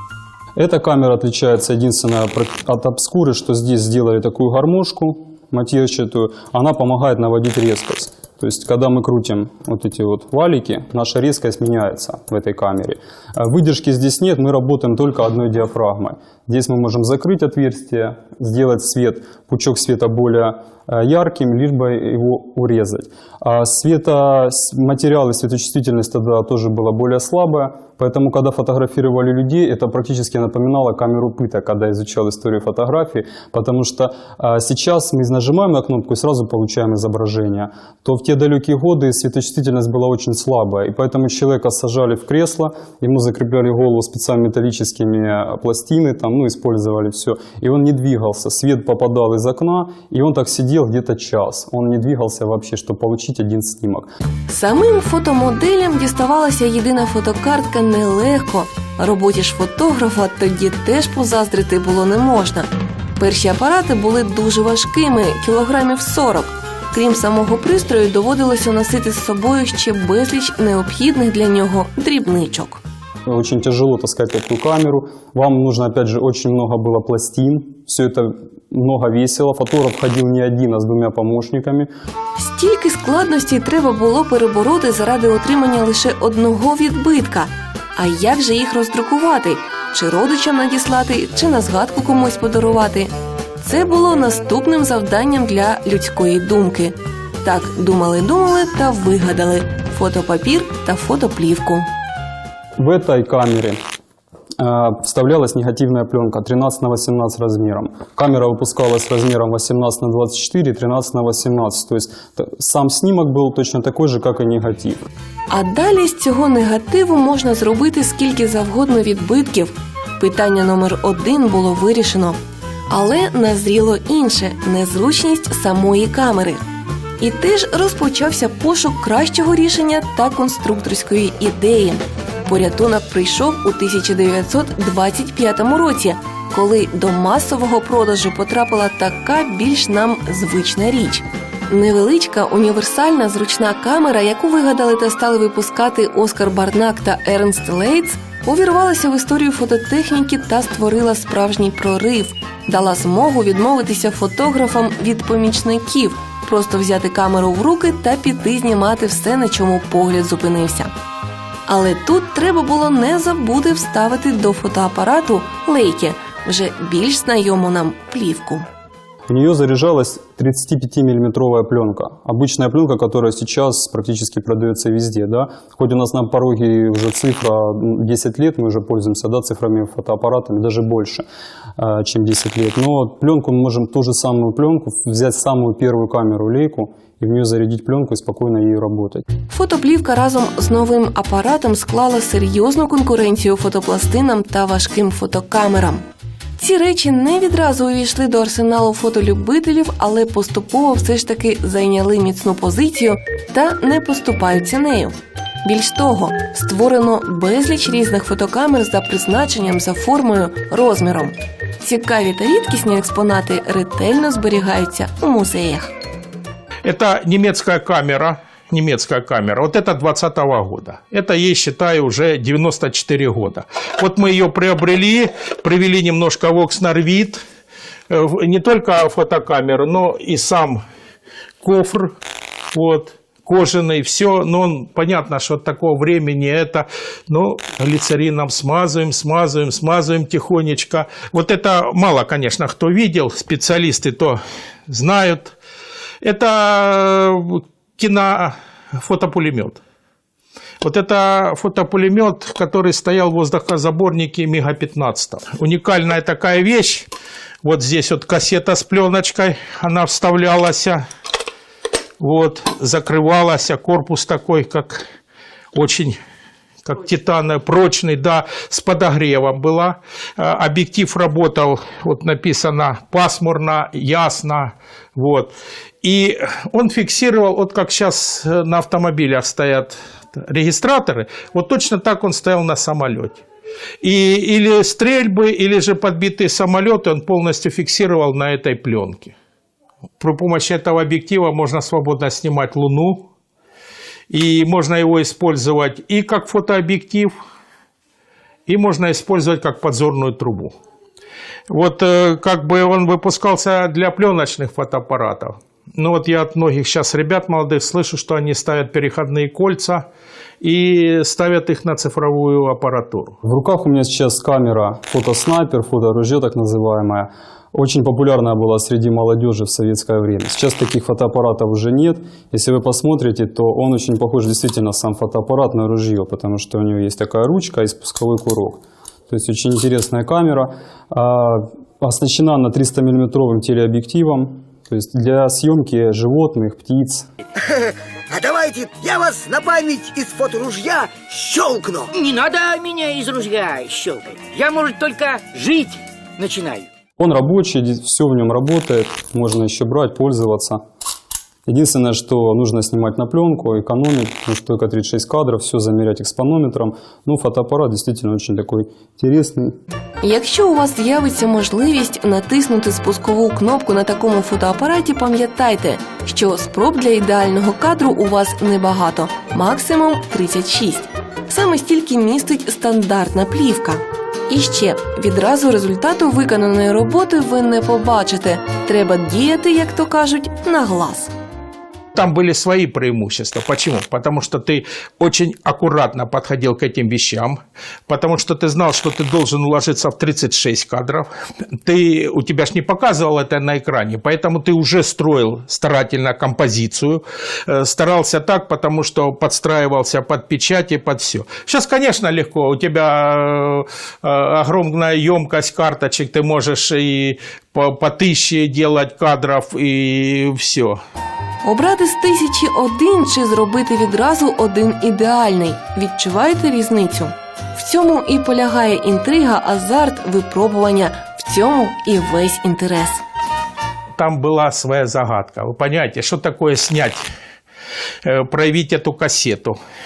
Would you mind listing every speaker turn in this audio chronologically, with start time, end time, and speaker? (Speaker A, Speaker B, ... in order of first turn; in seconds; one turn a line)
Speaker A: 0.6-54.1
Speaker B: 54.5-72.8
Speaker A: 73.3-81.9
Speaker B: 82.4-101.9
Speaker A: 102.8-103.8
Speaker A: 104.6-115.0
Speaker B: 115.5-122.4
Speaker B: 122.9-126.6
Speaker B: 127.2-160.9
Speaker B: 161.7-168.7
Speaker A: 169.3-181.2
Speaker A: 181.8-189.2
Speaker B: 189.5-196.0
Speaker B: 196.6-215.9
Speaker C: 216.8-227.4
Speaker C: 228.1-230.8
Speaker C: 231.6-232.1
Speaker C: 232.7-245.5
Speaker C: 246.2-249.8
Speaker C: 250.8-257.1
Speaker C: 257.6-261.0
Speaker C: 262.2-265.0
Speaker C: 265.7-266.2
Speaker C: 266.8-283.4
Speaker C: 284.0-289.3
Speaker C: 290.2-293.2
Speaker C: 294.3-297.3
Speaker C: 298.7-300.7
Speaker C: 301.7-310.0
Speaker C: 310.6-313.4
Speaker A: 313.4-337.3
Speaker D: 337.7-342.1
Speaker E: 342.1-346.9
Speaker A: 347.2-350.8
Speaker A: 351.7-359.7
Speaker B: 360.2-381.3
Speaker C: 382.1-391.3
Speaker C: 391.8-411.0
Speaker B: 411.6-423.2
Speaker C: 424.1-427.2
Speaker C: 428.2-429.8